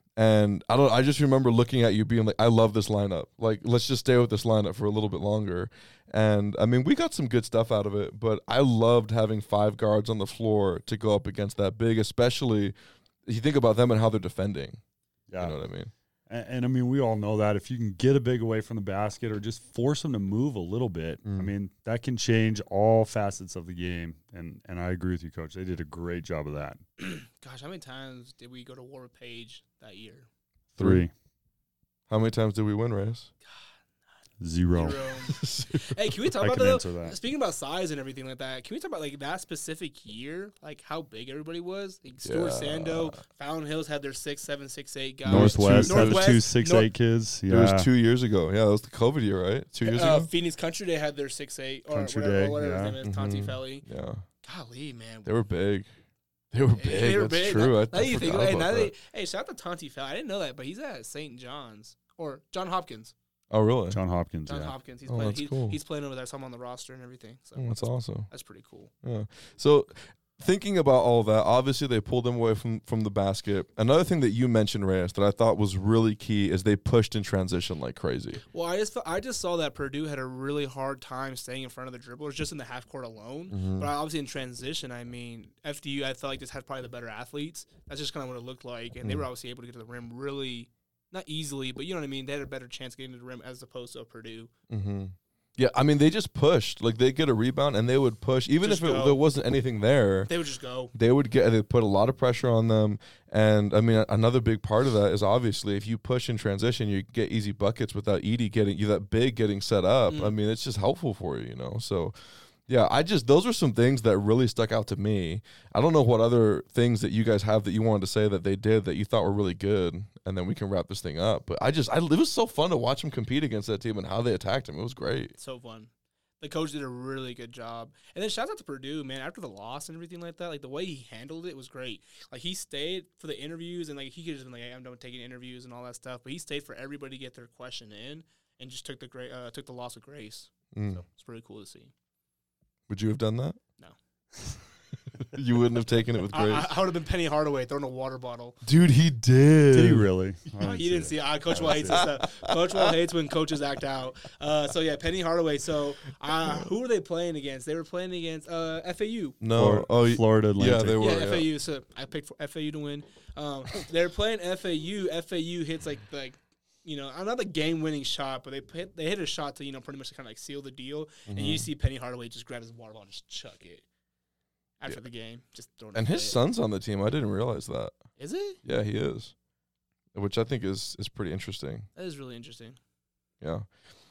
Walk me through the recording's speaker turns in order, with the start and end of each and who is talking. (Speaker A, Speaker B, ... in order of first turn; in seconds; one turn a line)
Speaker A: 0.2-12.7
Speaker A: 13.2-14.8
Speaker B: 15.3-15.6
Speaker A: 15.4-15.9
Speaker B: 16.3-26.8
Speaker A: 21.2-21.5
Speaker C: 27.0-30.3
Speaker A: 30.8-31.0
Speaker B: 30.8-31.1
Speaker A: 32.1-33.3
Speaker B: 34.4-35.0
Speaker C: 34.7-46.9
Speaker A: 35.3-36.0
Speaker B: 36.4-37.1
Speaker A: 42.2-43.2
Speaker B: 45.2-47.9
Speaker A: 45.3-46.4
Speaker A: 47.5-50.3
Speaker C: 49.8-53.8
Speaker B: 51.9-53.0
Speaker A: 53.0-54.2
Speaker C: 54.4-55.3
Speaker A: 55.2-55.9
Speaker A: 56.5-58.9
Speaker C: 56.8-63.1
Speaker A: 63.5-64.0
Speaker B: 63.9-64.7
Speaker C: 64.5-68.9
Speaker A: 65.1-65.8
Speaker A: 67.5-68.3
Speaker A: 69.0-78.4
Speaker C: 78.5-94.5
Speaker A: 83.5-83.9
Speaker A: 94.7-100.3
Speaker C: 98.6-99.2
Speaker C: 100.3-100.9
Speaker A: 100.9-112.1
Speaker C: 110.1-110.3
Speaker A: 112.7-125.3
Speaker C: 125.4-125.9
Speaker C: 126.4-141.9
Speaker A: 140.7-141.0
Speaker A: 142.9-143.6
Speaker A: 145.2-146.7
Speaker C: 146.3-148.6
Speaker A: 148.6-150.1
Speaker B: 149.7-152.0
Speaker C: 150.6-159.4
Speaker A: 151.6-152.9
Speaker A: 159.4-161.5
Speaker B: 159.5-161.0
Speaker C: 161.0-173.8
Speaker A: 171.3-171.7
Speaker C: 174.8-176.4
Speaker A: 175.9-178.0
Speaker C: 178.2-178.6
Speaker A: 178.6-179.3
Speaker A: 180.1-181.9
Speaker C: 181.9-182.8
Speaker A: 183.4-183.7